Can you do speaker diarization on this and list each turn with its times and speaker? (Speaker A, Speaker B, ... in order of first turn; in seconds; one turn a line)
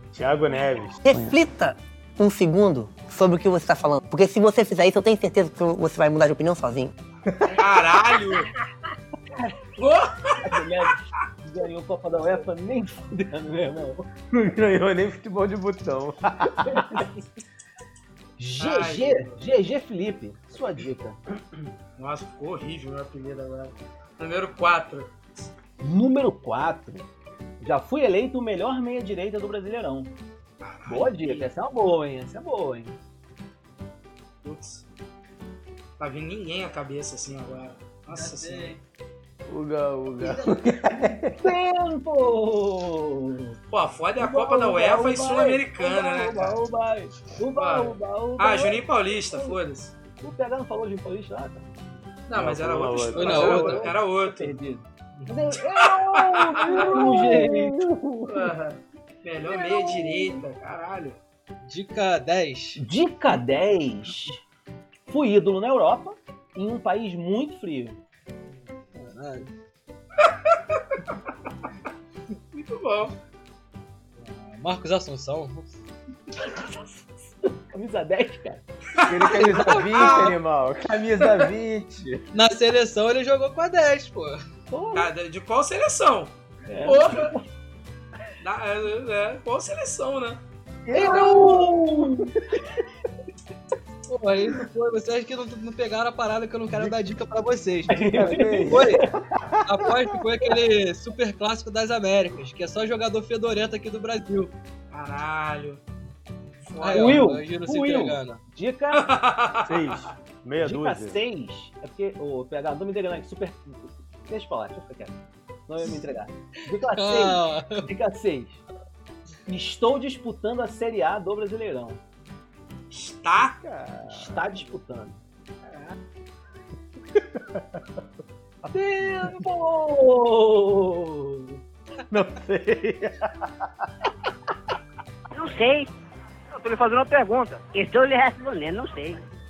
Speaker A: 0.1-1.0
Speaker B: 1.0-6.9
Speaker C: 7.5-8.5
Speaker C: 9.8-10.5
Speaker D: 10.4-14.1
Speaker A: 14.3-17.0
Speaker D: 16.8-17.1
Speaker D: 18.4-21.2
Speaker C: 18.6-19.4
Speaker C: 22.0-25.5
Speaker D: 25.8-27.1
Speaker D: 27.6-30.1
Speaker C: 30.6-31.5
Speaker D: 30.9-33.0
Speaker C: 34.4-34.8
Speaker C: 36.0-38.8
Speaker E: 38.1-38.8
Speaker A: 39.5-41.3
Speaker D: 41.4-43.6
Speaker C: 43.7-46.6
Speaker D: 44.2-49.6
Speaker C: 47.5-49.9
Speaker D: 50.2-51.6
Speaker C: 52.3-54.5
Speaker A: 52.3-53.8
Speaker E: 53.1-53.9
Speaker D: 53.2-57.8
Speaker C: 55.5-57.0
Speaker A: 56.6-58.5
Speaker C: 58.3-61.2
Speaker D: 59.5-60.3
Speaker E: 61.6-62.8
Speaker D: 62.8-64.4
Speaker D: 65.1-68.0
Speaker E: 68.9-69.5
Speaker C: 72.5-73.1
Speaker E: 74.2-75.7
Speaker D: 76.3-78.6
Speaker E: 79.0-80.3
Speaker A: 79.0-82.2
Speaker C: 79.8-80.3
Speaker E: 82.3-84.4
Speaker D: 84.7-85.1
Speaker C: 84.9-87.3
Speaker D: 86.7-87.5
Speaker C: 88.4-90.4
Speaker D: 90.9-92.3
Speaker C: 91.0-91.5
Speaker E: 94.1-99.0
Speaker A: 96.7-97.0
Speaker D: 97.9-99.1
Speaker A: 97.9-99.0
Speaker E: 99.7-104.5
Speaker C: 104.9-105.8
Speaker C: 106.7-107.4
Speaker E: 106.8-108.4
Speaker D: 106.9-109.1
Speaker C: 109.0-110.0
Speaker A: 109.7-111.2
Speaker D: 110.6-115.2
Speaker D: 115.7-118.6
Speaker E: 116.9-117.8
Speaker D: 119.5-122.0
Speaker C: 122.9-123.6
Speaker A: 123.6-124.6
Speaker D: 124.1-125.2
Speaker C: 125.7-125.9
Speaker A: 127.1-127.8
Speaker D: 128.7-131.6
Speaker A: 132.1-133.5
Speaker F: 135.4-135.9
Speaker F: 136.5-139.2